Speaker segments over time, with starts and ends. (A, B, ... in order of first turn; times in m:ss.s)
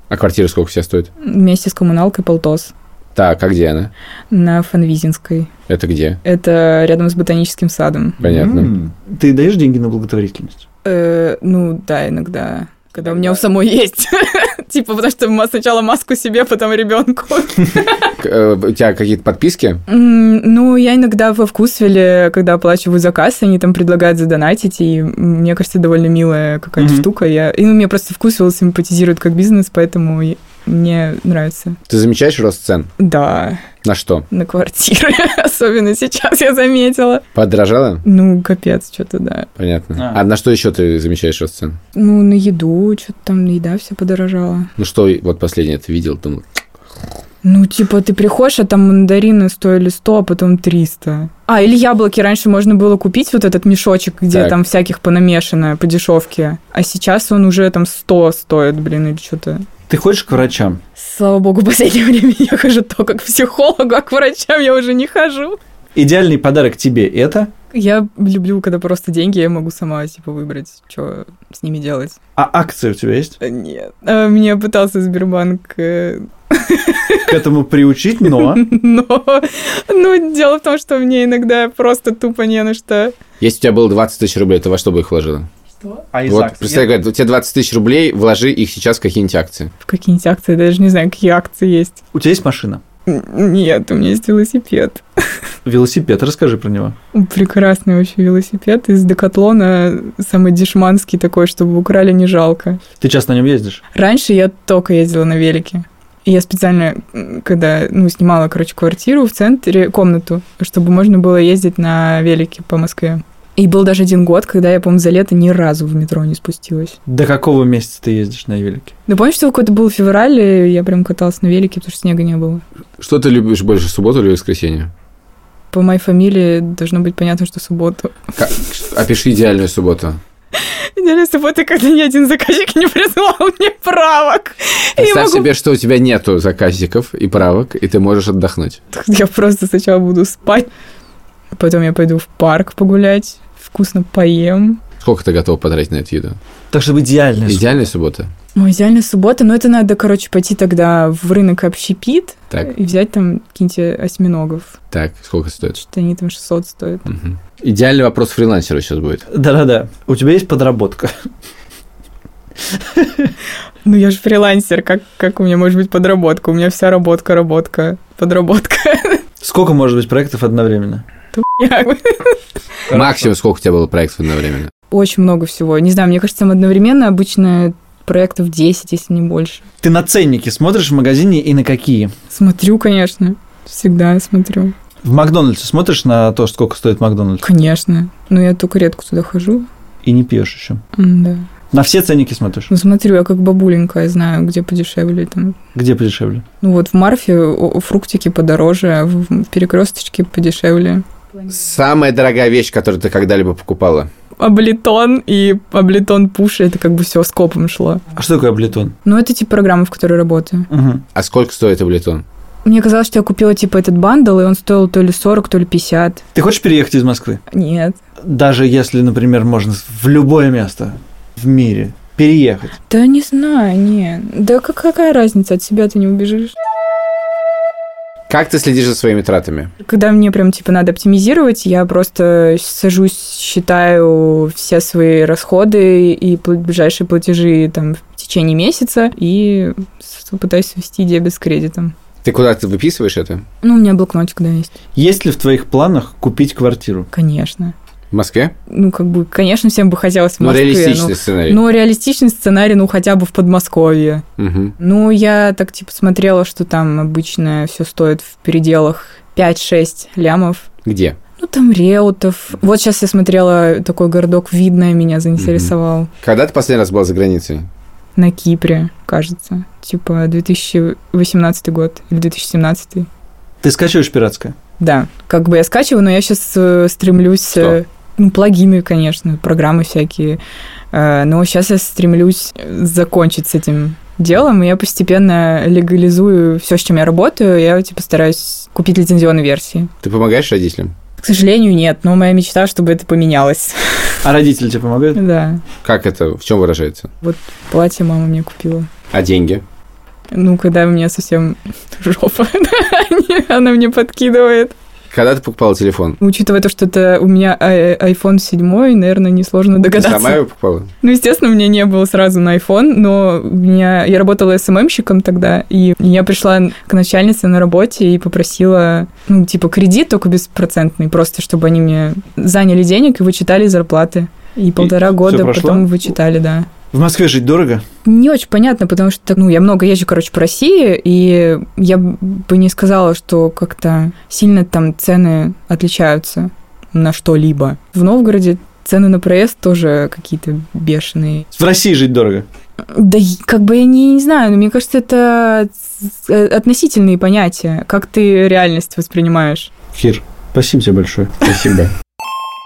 0:00.1-0:01.1 A
0:01.2-0:02.7 B
0:03.2-0:03.9 A
0:04.3-0:05.5 B
0:05.7-0:06.2 A
0:06.2-0:08.2 B
0:08.2-0:08.7 A
0:08.2-0:10.6 C
0:10.8-0:17.9 B
0:18.2-0:19.8 A
0:19.9-0:31.8 B
0:26.8-0:27.1 C
0:31.9-0:32.9 A
0:33.0-0:33.6 B
0:33.8-0:34.3 A
0:34.3-0:37.2 B
0:37.4-0:38.0 A
0:38.0-0:39.5 B
0:39.6-0:41.8 A
0:40.0-0:40.2 C
0:42.0-0:44.7 B
0:44.8-0:46.6 A
0:47.4-0:59.6 B
0:59.9-1:00.8 C
1:01.0-1:05.6 B
1:06.0-1:07.5 C
1:07.7-1:12.2 B
1:12.4-1:13.4 C
1:13.4-1:17.4 B
1:17.3-1:18.6 C
1:18.2-1:23.1 B
1:23.4-1:25.5 A
1:26.1-1:26.9 C
1:26.3-1:29.7 A
1:29.8-1:32.0 B
1:32.1-1:32.8 C
1:33.1-1:35.0 B
1:35.6-1:37.0 C
1:37.1-1:42.8 B
1:43.0-1:43.8 C
1:43.9-1:57.0 B
1:57.1-1:58.9 C
1:59.1-2:02.6 B
2:03.0-2:04.9 A
2:05.7-2:08.2 B
2:08.4-2:10.2 A
2:11.0-2:15.5 B
2:15.0-2:18.8 A
2:18.9-2:20.7 B
2:21.6-2:24.8 B
2:25.0-2:26.4 A
2:26.7-2:27.6 C
2:27.5-2:28.3 A
2:28.6-2:34.8 B
2:34.9-2:35.8 A
2:35.7-2:37.0 B
2:37.1-2:39.2 A
2:39.3-2:41.3 C
2:42.7-2:43.3 C
2:43.8-2:49.2 B
2:49.4-2:51.0 C
2:51.3-2:52.4 B
2:52.9-2:53.3 C
2:52.9-2:54.7 A
2:54.9-2:59.6 B
2:59.8-3:02.1 C
3:02.3-3:04.7 B
3:05.0-3:07.4 C
3:07.4-3:09.7 B
3:10.0-3:10.8 C
3:11.0-3:11.4 B
3:11.7-3:12.7 C
3:12.7-3:15.6 B
3:15.8-3:16.4 C
3:16.6-3:21.0 B
3:21.5-3:24.1 A
3:24.4-3:28.0 B
3:28.2-3:29.0 C
3:29.0-3:30.7 B
3:30.7-3:31.0 C
3:31.2-3:32.2 A
3:32.6-3:36.2 B
3:36.4-3:37.4 C
3:37.5-3:38.0 B
3:38.2-3:42.7 C
3:42.9-3:46.5 B
3:48.3-3:49.7 A
3:49.8-4:01.9 B
4:02.2-4:03.4 A
4:03.6-4:04.7 B
4:05.0-4:07.1 C
4:07.1-4:07.7 B
4:08.1-4:08.5 A
4:08.7-4:14.2 B
4:10.4-4:11.6 A
4:14.4-4:14.8 A
4:14.8-4:20.7 B
4:20.8-4:21.2 A
4:21.4-4:26.1 B
4:25.4-4:27.7 A
4:28.2-4:33.1 B
4:33.6-4:34.6 C
4:34.8-4:40.4 B
4:40.9-4:49.9 B
4:50.0-4:50.9 A
4:51.2-4:54.2 B
4:54.2-4:55.2 C
4:55.2-4:55.6 B
4:55.8-4:57.1 A
4:57.2-4:58.9 B
4:59.1-4:59.6 A
5:00.3-5:04.7 B
5:05.1-5:06.2 A
5:06.2-5:10.4 B
5:10.0-5:10.9 A
5:11.0-5:26.7 B
5:24.8-5:26.0 C
5:26.9-5:27.8 C
5:28.0-5:41.4 B
5:41.5-5:42.5 C
5:42.9-5:49.7 B
5:49.9-5:51.5 C
5:51.4-5:51.9 A